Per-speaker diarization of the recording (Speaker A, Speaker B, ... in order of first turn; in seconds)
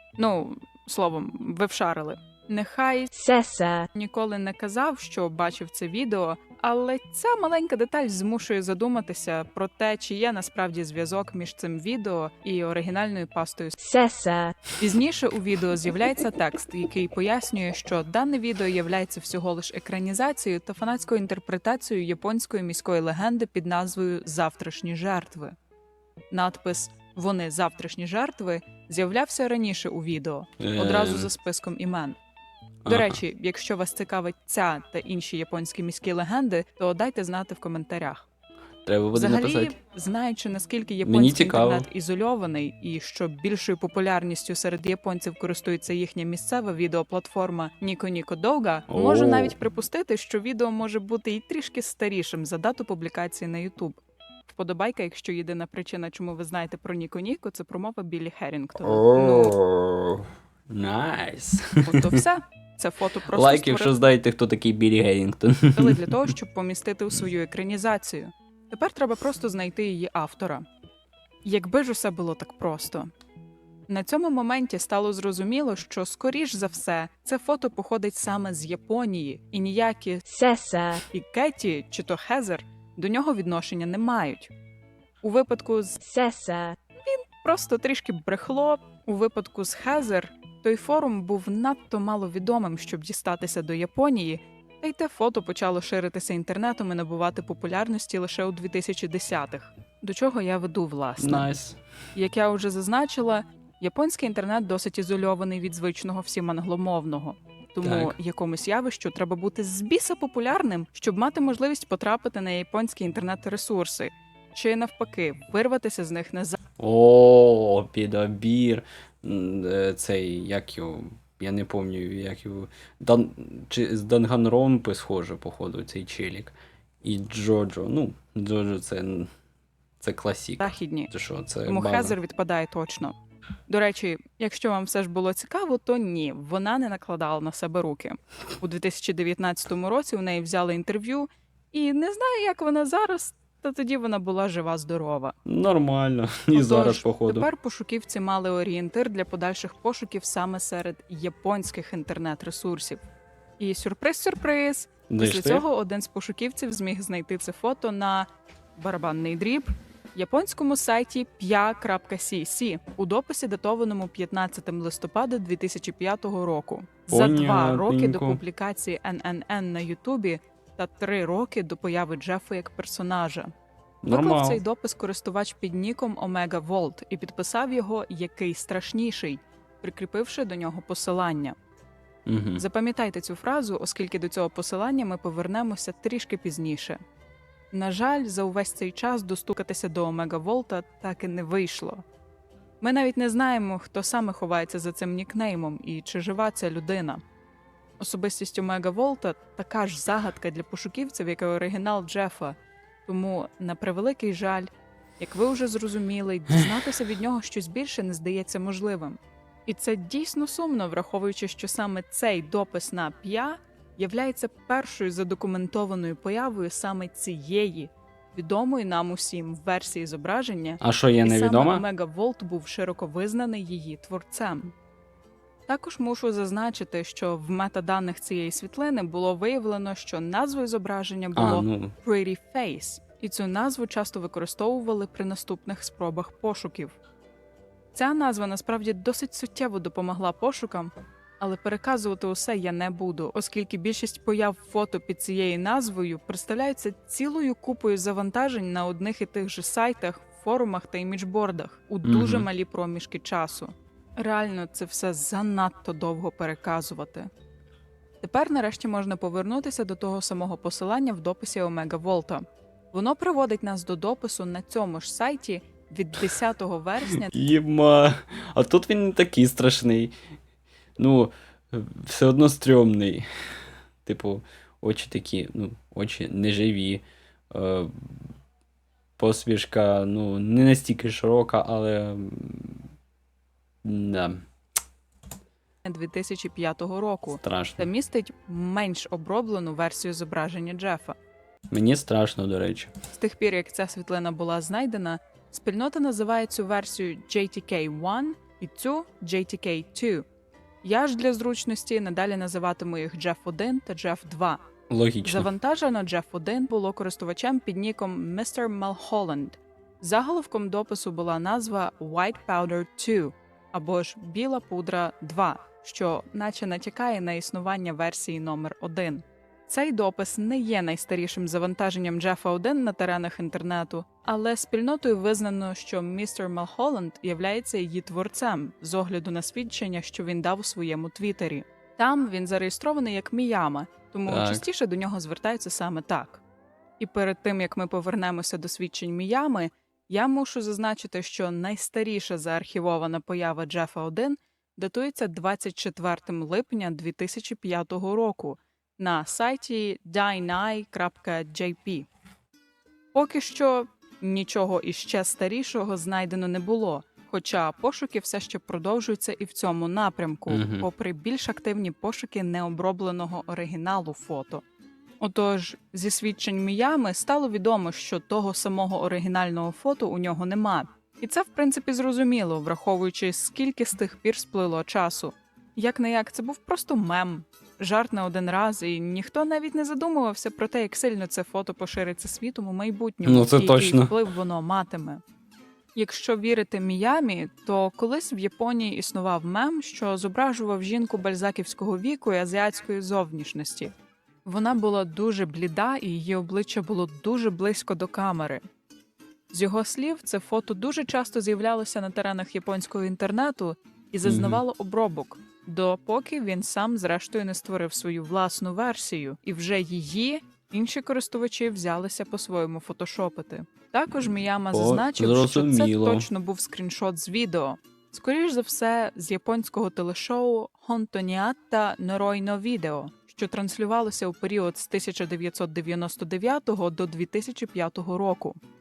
Speaker A: 0.2-3.1, 3.9-13.8, 14.8-25.6, 26.3-32.2, 32.9-38.3, 39.1-59.6, 61.8-63.9, 65.8-70.7, 71.5-73.1, 73.9-80.2, 81.1-84.5, 85.2-86.0, 87.0-101.5, 102.2-116.6, 130.6-131.1, 131.7-133.2, 133.7-145.4, 146.5-153.0, 153.6-173.5, 174.1-181.6, 182.6-187.0, 187.7-192.0, 192.8-197.2, 198.0-224.7, 225.7-236.9, 237.9-257.3, 258.2-267.4, 285.8-291.2, 293.1-300.2, 300.8-304.6, 305.2-336.4, 337.0-352.1, 353.1-364.6, 365.2-385.2, 385.9-393.9, 394.4-398.6, 399.5-428.6
Speaker B: 3.1-3.9, 13.8-14.7, 80.3-81.0, 86.0-86.8
Speaker C: 30.6-31.3, 32.9-33.2, 38.9-39.8, 41.0-41.9, 48.9-49.5, 58.8-62.2, 63.3-66.3, 101.2-101.8, 107.8-108.2, 116.8-129.3, 130.0-132.2, 145.4-147.5, 155.1-155.7, 167.1-168.4, 174.0-174.6, 182.3-182.6, 220.8-221.8, 231.4-232.0, 252.1-252.5, 267.2-270.1, 271.0-273.3, 274.1-278.3, 279.2-282.9, 283.8-284.4, 287.4-287.9, 291.7-292.9, 304.9-305.5, 334.3-334.7, 360.5-360.9, 383.2-384.1, 404.2-404.6, 414.7-416.3